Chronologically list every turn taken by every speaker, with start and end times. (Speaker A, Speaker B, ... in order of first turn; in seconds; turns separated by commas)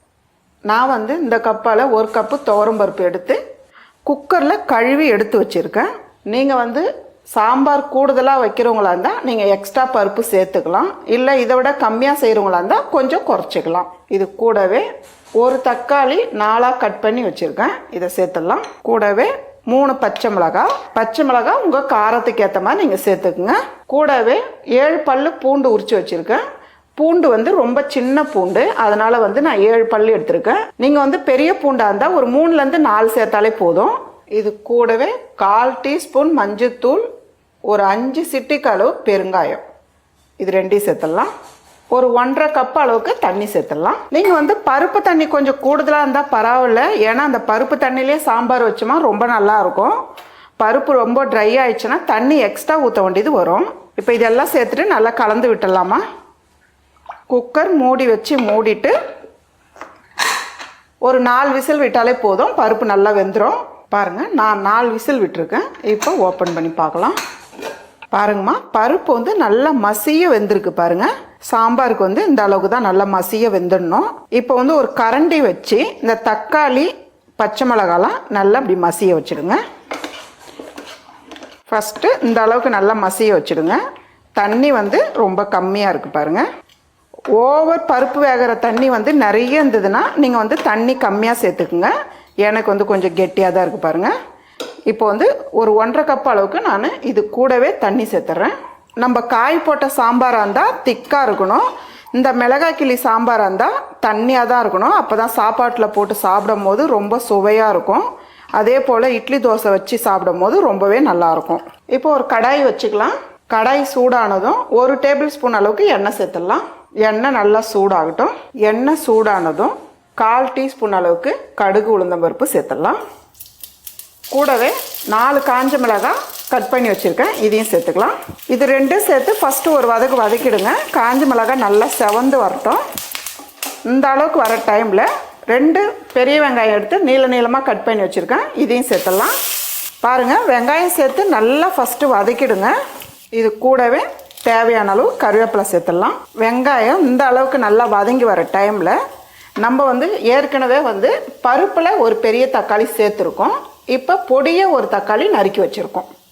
Speaker A: 0.7-3.4, Speaker A: 4.1-14.9, Speaker A: 15.4-26.4, Speaker A: 27.0-37.0, Speaker A: 37.7-39.6, Speaker A: 40.4-41.3, Speaker A: 41.9-50.0, Speaker A: 50.6-56.0, Speaker A: 57.3-58.9, Speaker A: 61.0-67.2, Speaker A: 68.1-79.6, Speaker A: 81.7-83.8, Speaker A: 84.4-86.5, Speaker A: 87.4-91.9, Speaker A: 92.5-94.1, Speaker A: 94.9-101.7, Speaker A: 102.2-108.1, Speaker A: 108.6-123.0, Speaker A: 124.3-132.8, Speaker A: 133.9-139.3, Speaker A: 140.0-142.7, Speaker A: 143.3-149.0, Speaker A: 149.6-156.1